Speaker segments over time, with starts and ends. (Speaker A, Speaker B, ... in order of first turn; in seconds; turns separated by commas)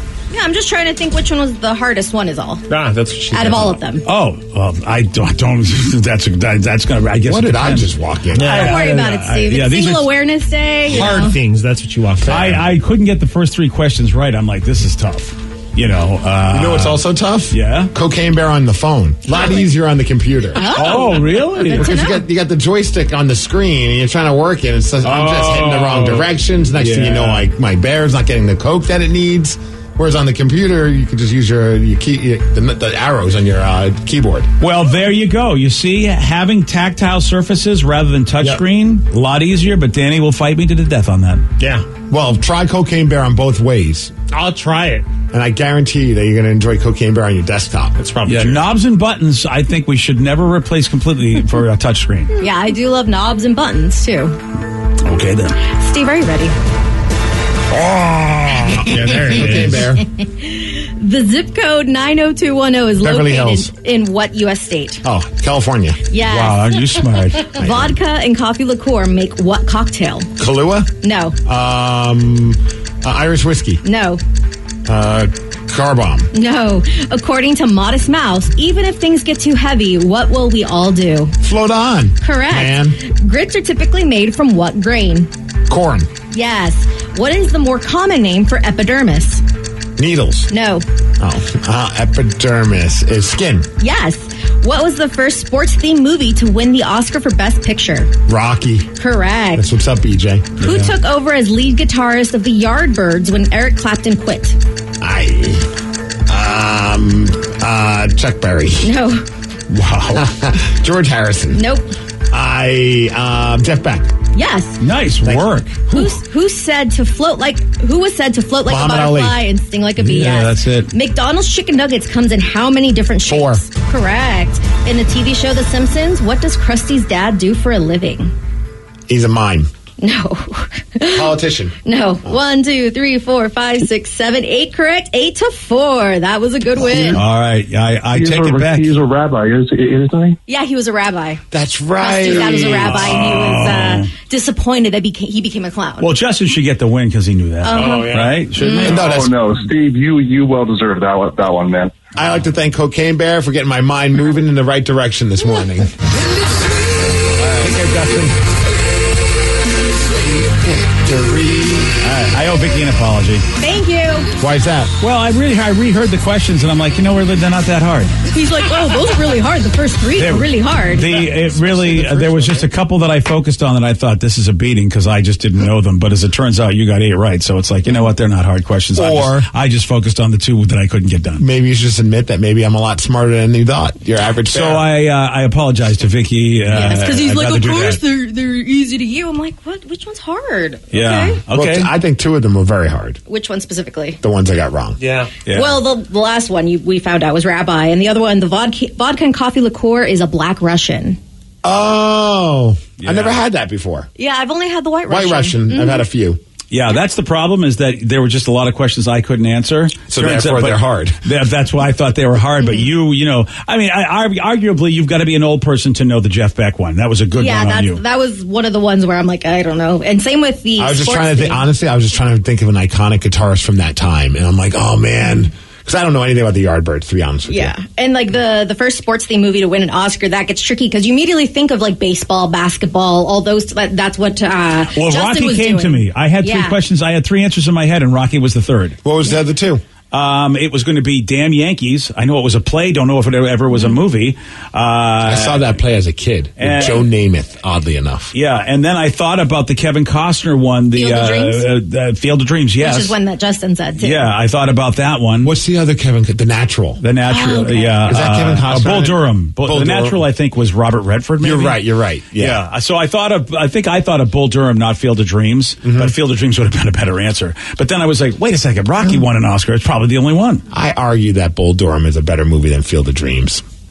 Speaker A: 0.3-2.6, Speaker B: 2.7-3.8, Speaker A: 3.3-4.0, Speaker C: 4.0-10.1, Speaker D: 7.2-8.7, Speaker B: 8.4-9.0, Speaker A: 8.4-11.3, Speaker B: 10.8-12.6, Speaker D: 12.2-12.6, Speaker C: 12.3-17.9, Speaker D: 16.5-20.9, Speaker A: 20.5-22.2, Speaker C: 20.7-21.9, Speaker D: 21.7-34.5, Speaker C: 25.0-27.5, Speaker C: 34.6-41.4, Speaker B: 41.6-41.9, Speaker D: 42.1-44.1, Speaker B: 44.3-45.1, Speaker D: 45.3-48.0, Speaker B: 48.0-48.7, Speaker C: 48.2-52.4, Speaker A: 52.4-54.4, Speaker C: 55.0-55.6, Speaker A: 55.6-56.5, Speaker B: 57.7-59.9, Speaker D: 58.9-60.0, Speaker A: 60.4-65.0, Speaker D: 63.0-63.7, Speaker D: 65.0-66.0, Speaker A: 66.1-66.8, Speaker C: 66.2-67.6, Speaker D: 67.6-67.9, Speaker A: 67.6-70.3, Speaker D: 70.4-70.9, Speaker A: 71.0-71.3, Speaker D: 71.4-73.8, Speaker A: 73.8-74.2, Speaker D: 74.8-76.3, Speaker A: 76.3-81.3, Speaker D: 81.4-83.0, Speaker A: 82.2-85.3, Speaker D: 85.7-86.1, Speaker A: 86.3-89.4, Speaker D: 90.0-90.5, Speaker A: 90.5-90.8, Speaker D: 91.2-93.7, Speaker A: 93.8-98.1, Speaker D: 98.3-98.9, Speaker A: 99.0-99.6, Speaker D: 99.5-100.9, Speaker A: 100.6-104.6, Speaker D: 105.0-105.7, Speaker D: 106.3-108.9, Speaker A: 108.8-109.2, Speaker C: 109.7-110.2, Speaker D: 110.1-111.6, Speaker A: 111.5-111.9, Speaker D: 112.3-114.1, Speaker A: 114.3-114.8, Speaker C: 114.8-115.8, Speaker D: 115.2-115.6, Speaker A: 115.9-128.3, Speaker D: 118.7-119.4, Speaker C: 120.1-120.9, Speaker D: 123.3-123.6, Speaker D: 129.1-129.7, Speaker A: 130.0-131.3, Speaker D: 131.1-132.3, Speaker A: 131.8-137.2, Speaker D: 136.8-137.2, Speaker C: 137.1-138.9, Speaker E: 138.1-140.4, Speaker A: 140.5-141.4, Speaker D: 141.5-143.2, Speaker A: 142.0-146.1, Speaker C: 142.9-144.1, Speaker C: 146.0-149.1, Speaker A: 147.6-148.9, Speaker B: 147.7-148.5, Speaker E: 148.8-152.0, Speaker D: 148.8-149.3, Speaker D: 152.2-156.0, Speaker D: 157.6-158.3, Speaker D: 160.2-161.9, Speaker C: 162.0-163.4, Speaker A: 163.6-164.3, Speaker D: 164.4-164.9, Speaker C: 165.0-168.1, Speaker A: 168.3-171.1, Speaker C: 170.2-181.4, Speaker D: 171.5-172.6, Speaker D: 178.9-179.5, Speaker D: 181.4-184.9, Speaker C: 184.5-188.0, Speaker A: 186.7-191.4, Speaker C: 190.9-191.9, Speaker D: 191.5-193.2, Speaker A: 193.3-194.2, Speaker D: 194.2-195.0, Speaker B: 195.0-195.3, Speaker C: 195.4-195.8, Speaker A: 195.5-201.2, Speaker D: 201.6-204.1, Speaker C: 203.0-203.4, Speaker A: 204.2-206.0, Speaker D: 205.1-206.4, Speaker C: 206.7-218.0, Speaker D: 210.1-211.2, Speaker A: 217.3-221.6, Speaker D: 220.8-227.7, Speaker A: 227.5-236.8, Speaker C: 234.9-239.0, Speaker D: 239.0-239.8, Speaker C: 240.1-245.7, Speaker A: 243.7-244.0, Speaker D: 245.2-248.3, Speaker C: 246.6-247.1, Speaker C: 248.3-253.1, Speaker A: 250.9-251.7, Speaker A: 252.8-254.3, Speaker C: 254.0-255.5, Speaker D: 255.4-257.0, Speaker C: 257.0-261.8, Speaker A: 257.2-258.1, Speaker D: 258.0-260.2, Speaker D: 261.4-262.6, Speaker C: 262.3-270.6, Speaker D: 265.8-266.1, Speaker D: 269.0-269.2, Speaker D: 270.7-273.6